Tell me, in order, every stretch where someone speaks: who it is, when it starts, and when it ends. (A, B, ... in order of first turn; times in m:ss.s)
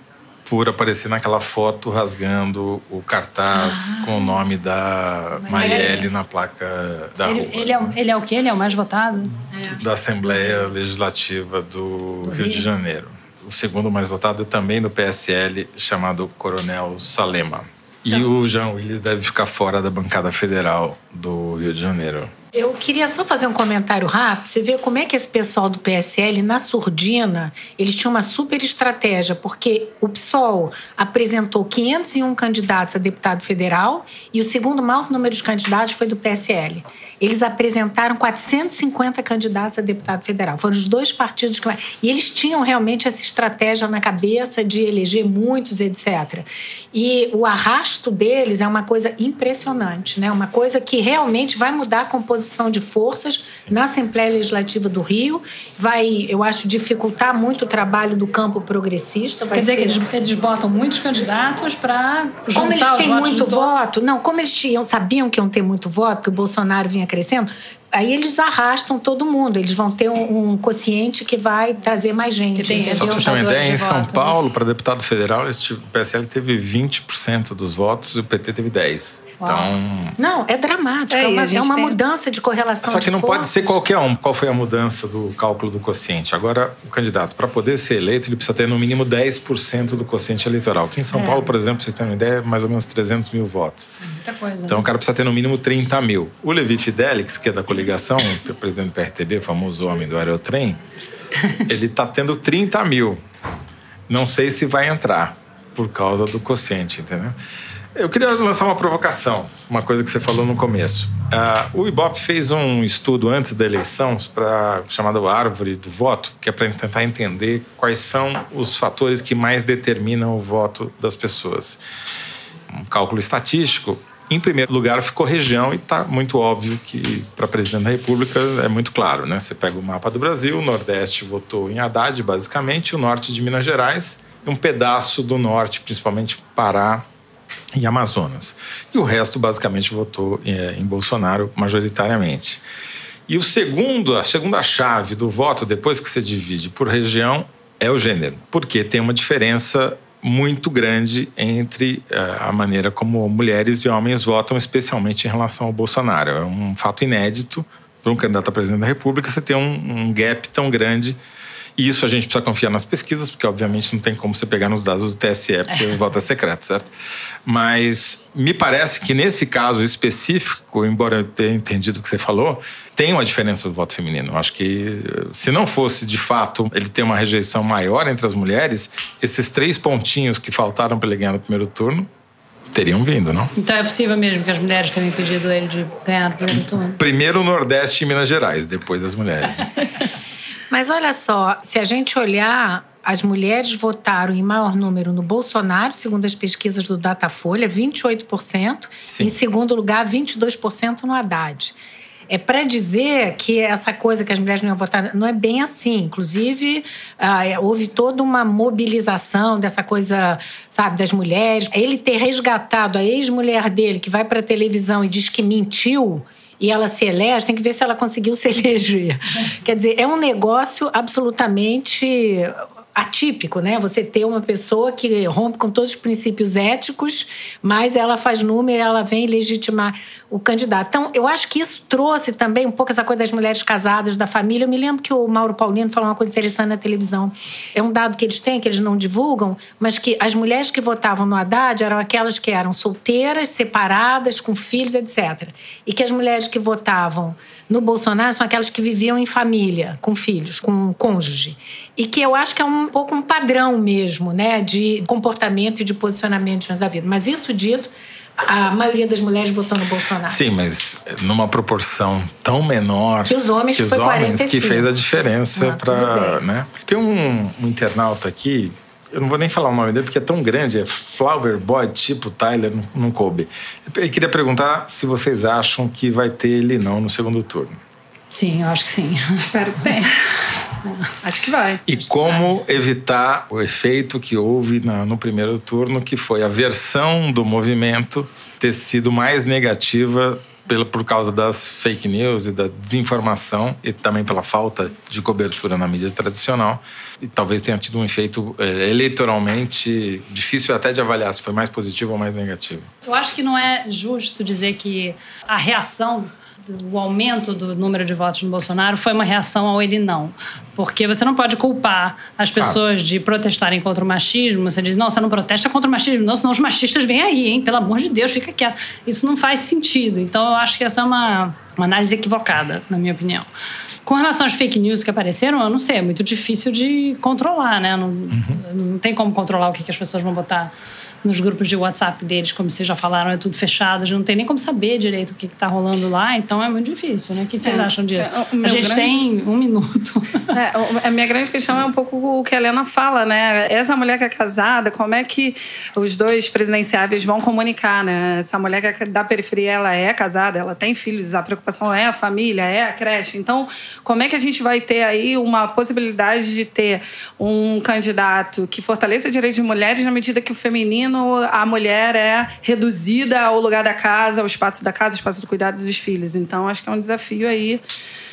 0:00.4-0:08.0 A
0:03.5-0:04.4 B
0:05.4-0:06.0 C
0:05.5-0:06.1 B
0:07.2-0:09.4 C
0:09.6-0:22.3 A
0:12.2-0:12.7 C
0:22.5-1:00.0 B
0:59.5-1:03.8 C
1:02.5-1:13.4 B
1:12.5-1:14.4 C
1:12.7-1:20.2 A
1:19.4-1:19.7 C
1:20.2-1:23.8 B
1:21.1-1:22.0 D
1:22.8-1:33.9 A
1:34.0-1:34.9 C
1:34.7-1:40.8 A
1:41.6-1:43.2 A
1:44.1-1:47.4 A
1:47.9-2:01.8 A
2:02.7-2:17.0 A
2:17.7-2:22.6 A
2:23.3-2:41.2 A
2:41.8-2:46.9 A
2:47.4-3:02.1 A
3:02.7-3:03.5 A
3:03.6-3:07.0 C
3:07.0-3:09.8 A
3:10.7-3:21.8 B
3:19.1-3:19.3 A
3:22.3-4:20.4 B
4:20.3-4:37.8 A
4:23.2-4:24.9 B
4:25.5-4:26.4 B
4:38.3-4:40.0 C
4:39.5-4:40.1 D
4:40.8-4:41.1 C
4:41.2-4:41.8 D
4:41.8-5:02.9 A
5:03.0-5:23.5 C
5:24.0-5:30.7 C
5:28.3-5:28.6 A
5:31.2-5:40.5 C
5:37.6-5:39.2 D
5:40.5-6:07.8 D